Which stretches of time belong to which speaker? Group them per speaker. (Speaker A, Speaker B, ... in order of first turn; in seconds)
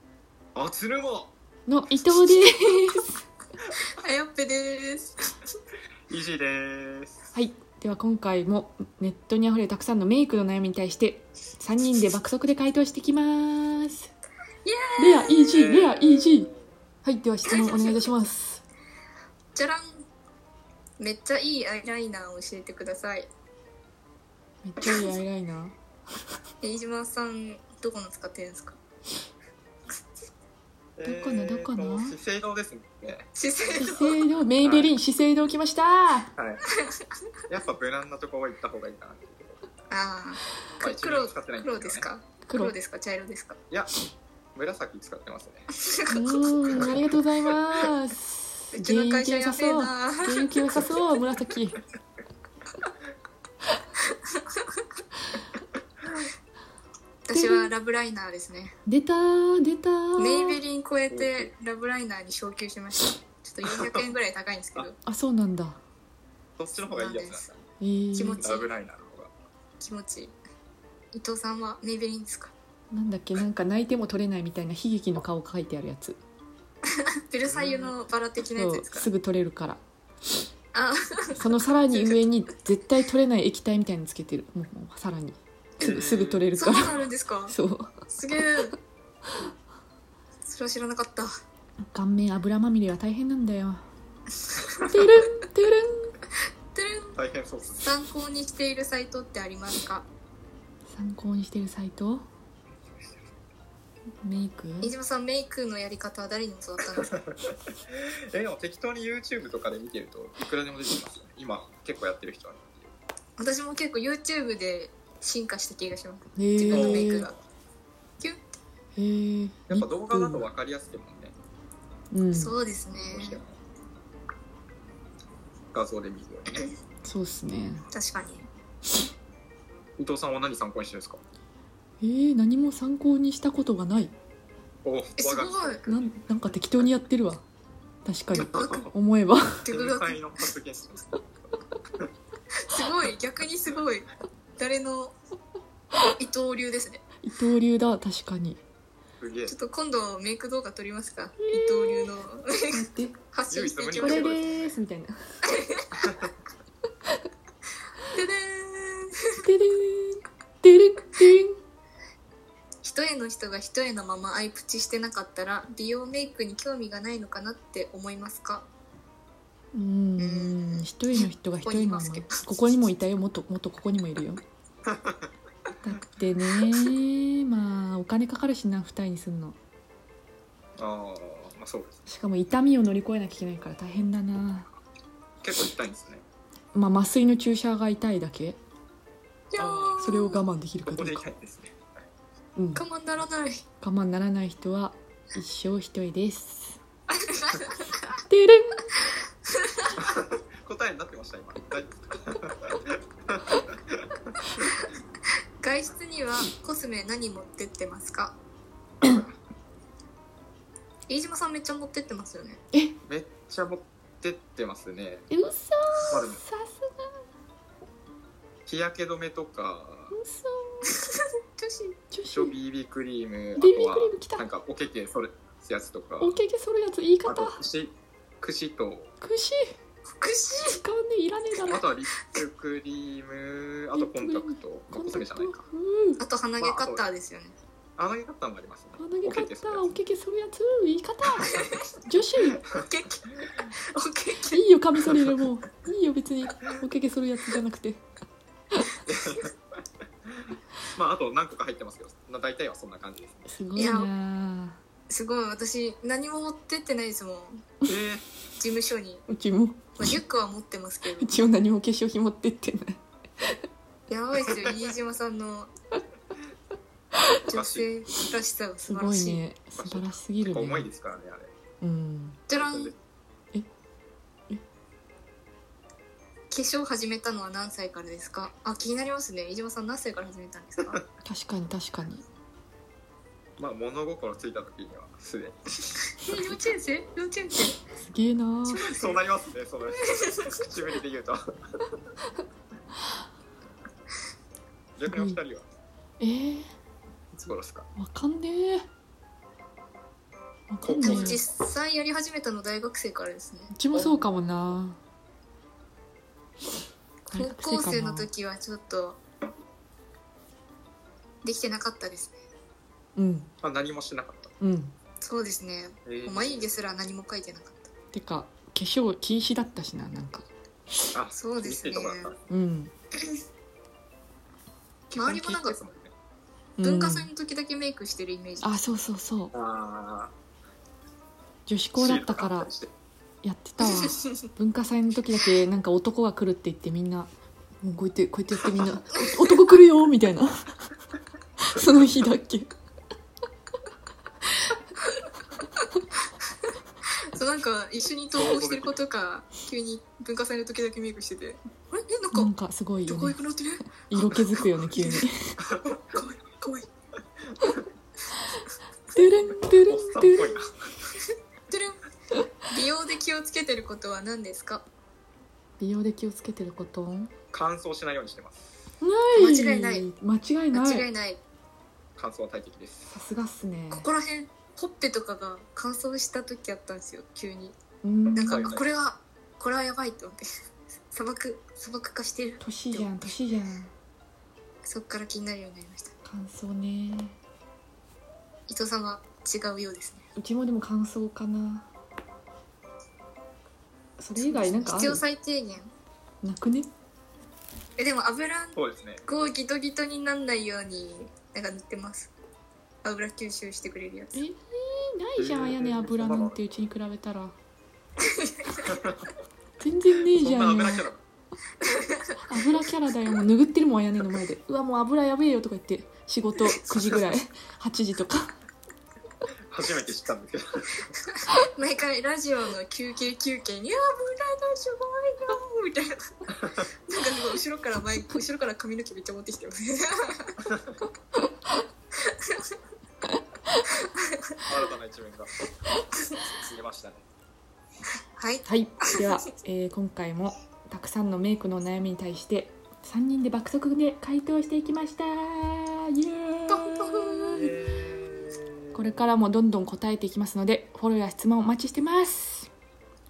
Speaker A: 0.5-1.3, 6.1-7.2, 15.3-16.7, 30.9-33.3, 34.6-34.9, 36.4-36.6, 37.5-39.6, 40.8-42.1, 44.5-45.7, 61.1-61.5, 63.6-64.1, 66.6-67.6, 68.4-69.3, 77.4-77.9, 85.8-86.9, 97.2-97.9, 107.3-112.9, 116.7-117.2, 119.7-121.3, 122.9-123.6, 125.7-126.7, 130.0-131.2, 134.8-136.1, 138.3-138.9, 139.7-141.3, 149.2-149.5, 153.5-154.8, 156.0-156.3, 174.8-175.3, 180.8-182.0, 185.4-186.2, 189.6-190.1, 190.8-191.7, 200.0-204.6, 209.0-209.3, 213.1-215.3, 216.1-216.4, 218.7-220.2, 222.3-226.4, 227.2-229.1, 231.6-235.6, 236.6-237.0, 238.0-240.0, 249.0-249.6, 250.3-253.5, 257.9-258.2, 267.5-267.9, 269.8-271.5, 272.6-272.9, 283.6-285.9, 288.8-291.4, 295.0-295.6, 297.3-297.9, 300.8-301.5, 313.6-314.5, 316.1-316.8, 321.1-322.4, 325.1-326.1, 329.5-330.3, 331.9-332.9, 348.3-349.0, 359.9-360.7, 367.5-368.7, 372.2-373.1, 378.4-378.8, 398.7-399.2, 405.4-406.6, 408.8-409.2, 410.3-411.2, 419.7-421.1, 434.6-435.6, 436.5-437.2, 447.5-449.3
Speaker B: 1.7-3.2, 7.3-14.1, 15.0-16.5, 17.0-18.6, 24.6-25.8, 31.0-32.1, 33.7-36.3, 42.4-42.7, 46.1-51.8, 57.3-57.7, 58.9-60.6, 65.0-65.8, 67.8-68.4, 72.9-76.2, 78.5-79.8, 81.3-87.0, 87.5-87.9, 91.8-93.8, 94.9-96.1, 100.9-102.2, 104.2-104.9, 116.3-117.3, 119.0-120.4, 122.1-122.5, 127.0-127.8, 132.0-134.1, 135.9-137.4, 138.0-139.7, 147.2-148.6, 151.4-152.1, 152.7-153.1, 154.0-155.1, 159.4-161.6, 169.7-174.4, 175.8-179.6, 182.1-184.7, 186.7-188.6, 190.0-191.2, 192.6-192.8, 193.8-196.8, 198.3-198.9, 215.3-217.2, 220.1-221.0, 222.1-222.5, 223.6-224.4, 226.2-227.6, 229.2-229.7, 230.7-231.8, 233.9-236.2, 239.0-242.6, 244.5-248.0, 253.5-254.8, 259.3-260.2, 261.2-263.6, 268.9-270.9, 271.8-272.4, 281.2-282.2, 288.0-288.9, 295.1-295.4, 296.2-296.7, 298.0-298.9, 300.7-301.4, 303.7-305.0, 307.3-308.3, 313.1-313.5, 314.6-314.9, 318.1-320.5, 322.5-322.9, 326.8-327.3, 328.6-329.5, 331.7-332.7, 333.4-337.3, 337.8-340.9, 341.6-342.7, 352.3-353.4, 354.1-355.6, 359.1-360.6, 365.8-367.3, 369.0-371.1, 373.1-374.1, 378.0-378.7, 382.6-383.9, 386.2-387.4, 390.4-391.9, 394.2-395.2, 396.4-396.9, 404.3-407.6, 409.8-411.1, 412.4-418.6, 438.6-447.7, 448.9-452.7
Speaker C: 4.0-5.4, 14.6-15.6, 17.5-18.1, 19.5-20.0, 21.0-23.3, 24.8-25.2, 26.6-28.8, 33.4-34.1, 39.9-43.6, 45.8-46.2, 48.7-50.8, 54.4-54.8, 57.2-58.8, 60.2-65.0, 66.9-67.5, 68.1-68.7, 69.8-70.3, 71.1-72.5, 77.0-79.1, 80.7-82.2, 86.5-87.5, 88.1-88.7, 90.4-91.3, 94.5-95.0, 96.7-97.2, 97.8-100.0, 104.8-107.1, 113.4-117.4, 122.3-123.4, 127.9-128.5, 135.2-135.8, 138.4-138.9, 139.6-140.2, 142.7-145.1, 146.1-147.0, 149.5-154.5, 155.5-156.2, 158.1-159.4, 162.8-168.7, 170.2-172.8, 189.5-190.4, 192.7-193.6, 197.1-198.2, 205.6-208.3, 211.1-212.6, 220.9-221.9, 230.2-230.8, 236.2-237.6, 241.5-241.8, 242.6-244.6, 253.8-254.1, 255.1-257.6, 258.6-259.2, 260.0-261.4, 264.1-265.7, 267.4-269.4, 272.5-272.9, 276.5-281.0, 286.2-287.8, 288.7-289.2, 290.0-290.7, 301.0-304.2, 307.3-309.2, 311.4-312.4, 315.2-317.9, 321.4-322.3, 325.1-325.8, 326.8-328.7, 333.8-334.2, 347.3-352.5, 353.1-353.8, 354.9-355.2, 355.9-356.9, 361.7-362.0, 362.6-364.9, 369.4-370.1, 370.7-371.4, 373.9-377.8, 378.3-380.5, 381.1-383.2, 384.8-386.1, 388.7-390.2, 394.4-395.9, 398.0-402.3, 403.0-404.4, 408.3-408.9, 411.8-412.4, 421.6-430.6, 432.2-432.6, 438.4-439.2, 446.7-447.6